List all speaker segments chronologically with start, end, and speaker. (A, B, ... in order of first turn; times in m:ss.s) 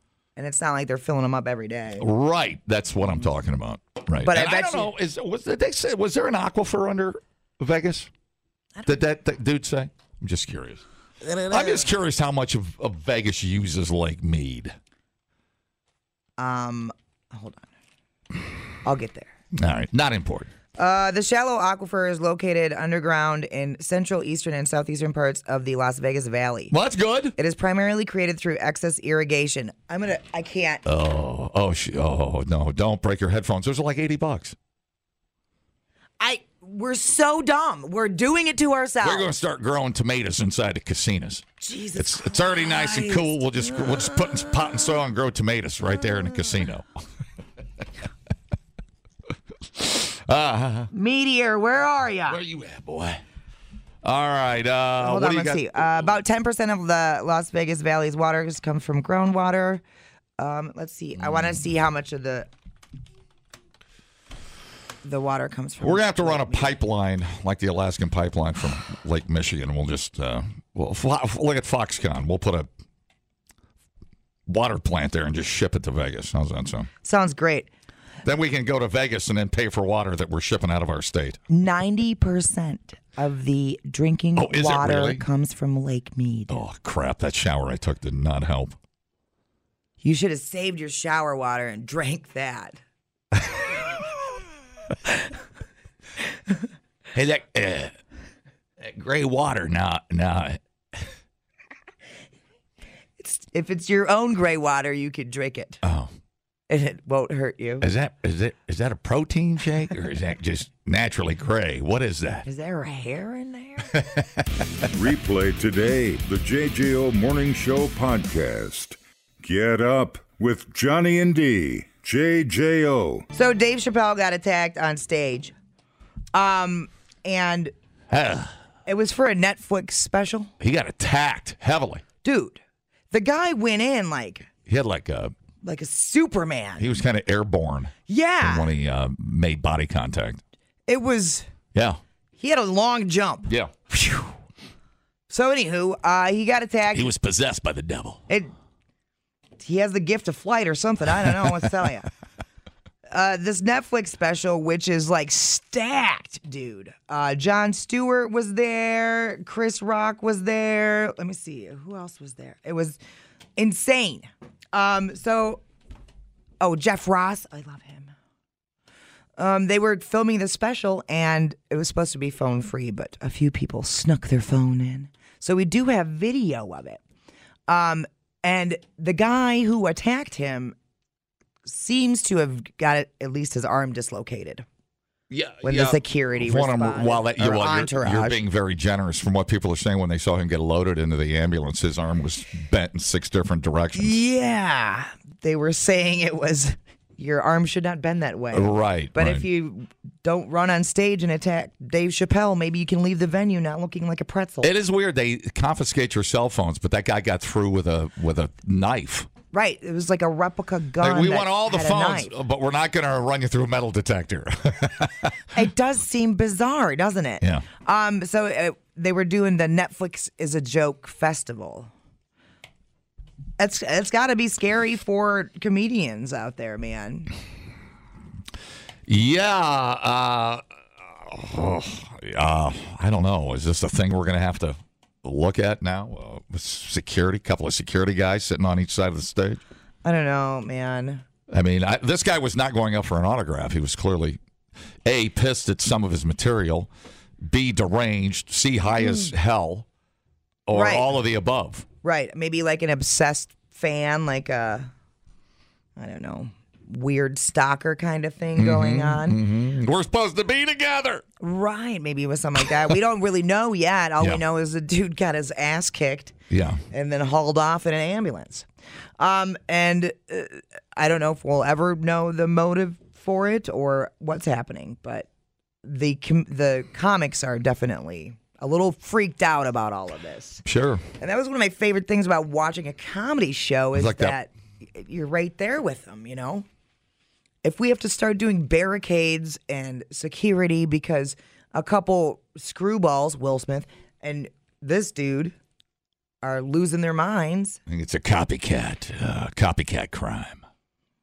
0:00.4-0:02.0 A
0:02.0-0:08.1 B
0:04.2-0:04.9 A
0:08.8-0:09.0 A
0:08.8-0:10.8 B
0:11.2-0:11.8 A
0:11.5-0:14.8 B
0:16.4-0:17.7 A
0:18.8-0:19.3 A
0:19.5-0:20.5 B
0:20.8-0:26.7 A
0:26.7-0:27.4 B
0:27.4-0:30.8 A
0:30.8-0:34.6 B
0:36.2-0:39.3 A
0:39.0-0:46.9 B
0:41.6-0:44.8 A
0:49.7-0:50.9 B
0:50.9-0:52.4 A
0:52.3-0:53.2 B
0:54.0-0:56.1 B
0:55.0-0:59.8 A
1:00.4-1:02.5 A
1:01.2-1:01.6 B
1:05.0-1:06.7 A
1:05.8-1:12.7 B
1:14.5-1:16.9 B
1:17.0-1:17.7 A
1:18.2-1:21.4 B
1:21.5-1:26.6 A
1:24.3-1:25.2 B
1:26.5-1:28.8 B
1:30.0-1:32.8 A
1:37.1-1:38.0 B
1:38.8-1:40.6 B
1:43.2-1:45.8 A
1:45.8-1:46.1 B
1:46.7-1:47.9 A
1:47.8-1:52.4 B
1:52.4-1:53.9 A
1:53.9-1:54.4 B
1:54.9-2:03.2 C
2:03.3-2:05.5 A
2:06.3-2:07.7 A
2:08.1-2:08.5 B
2:08.9-2:10.5 A
2:10.6-2:12.0 B
2:12.2-2:14.5 A
2:14.6-2:15.3 B
2:15.6-2:16.8 A
2:16.8-2:20.4 B
2:18.1-2:18.7 A
2:20.9-2:21.5 A
2:21.7-2:22.0 B
2:22.4-2:24.3 A
2:23.5-2:23.7 B
2:25.3-2:27.1 A
2:26.9-2:28.2 B
2:29.6-2:32.1 A
2:33.1-2:43.0 A
2:43.6-2:45.6 A
2:46.6-2:48.1 A
2:49.4-2:57.0 A
2:57.7-3:00.7 A
3:01.6-3:04.6 A
3:05.3-3:14.2 B
3:05.6-3:08.4 A
3:14.0-3:24.7 A
3:18.5-3:19.4 B
3:24.6-3:29.3 B
3:29.5-3:32.3 A
3:31.0-3:35.3 B
3:35.5-3:41.9 A
3:37.4-3:37.6 B
3:43.6-3:47.3 A
3:49.1-3:59.6 B
4:00.0-4:01.2 A
4:01.5-4:04.4 B
4:05.0-4:06.9 B
4:07.4-4:09.8 B
4:09.0-4:09.3 A
4:10.7-4:11.8 B
4:10.7-4:11.1 A
4:12.0-4:14.9 A
4:16.0-4:19.4 A
4:18.6-4:21.2 B
4:21.4-4:26.3 A
4:26.5-4:26.8 B
4:26.9-4:28.7 A
4:29.2-4:35.3 A
4:35.8-4:40.6 A
4:40.6-4:41.0 B
4:41.2-4:46.6 A
4:43.9-4:44.4 B
4:47.6-4:55.5 A
4:56.4-4:57.8 A
4:57.9-5:00.6 B